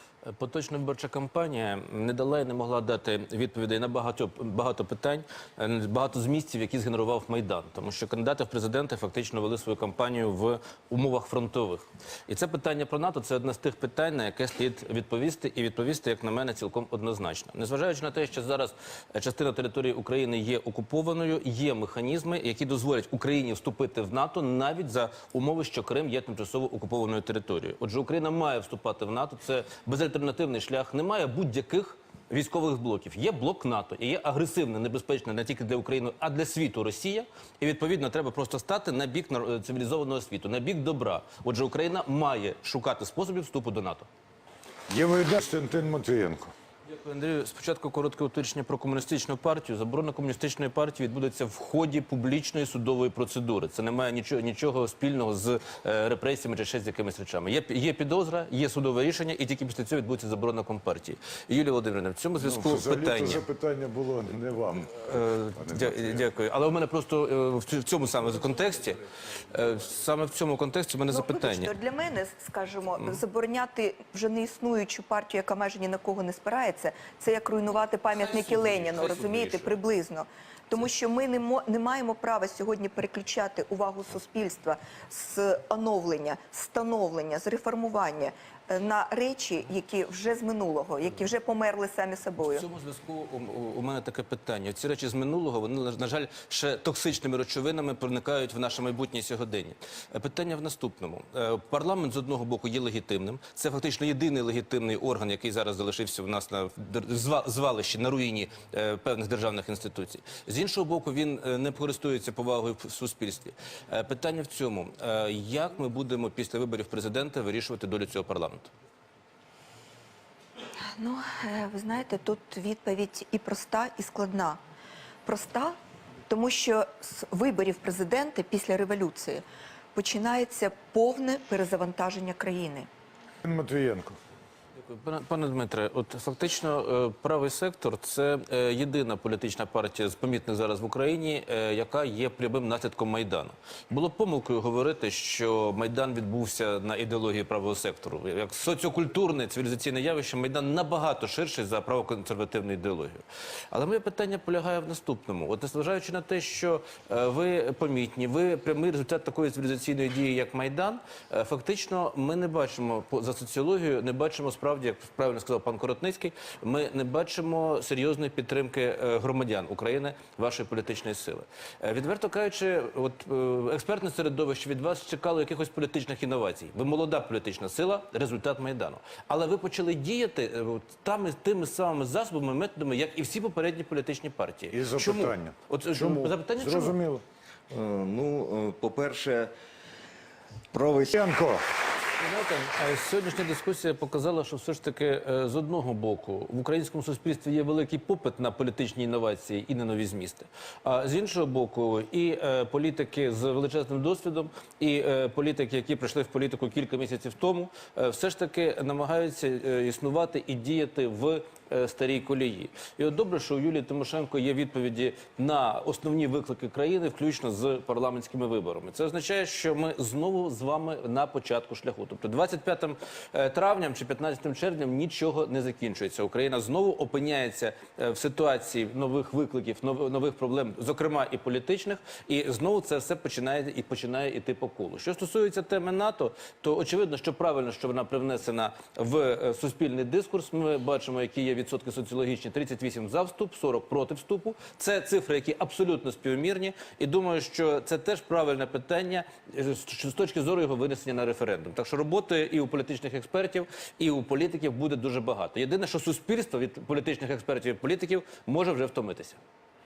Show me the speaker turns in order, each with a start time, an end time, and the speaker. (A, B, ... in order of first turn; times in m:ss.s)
0:00.3-0:44.1 A
0:44.9-0:46.5 B
0:46.9-1:03.4 A
1:02.4-1:06.2 B
1:05.0-1:11.7 A
1:11.1-1:32.7 C
1:18.2-1:19.7 A
1:32.5-1:58.7 A
2:01.0-2:04.6 C
2:05.2-2:05.8 C
2:06.3-2:12.9 C
2:13.4-2:14.2 B
2:14.8-3:07.0 A
3:04.7-3:07.2 B
3:07.7-3:09.5 D
3:10.7-3:11.2 D
3:11.2-3:11.6 B
3:12.2-4:19.4 A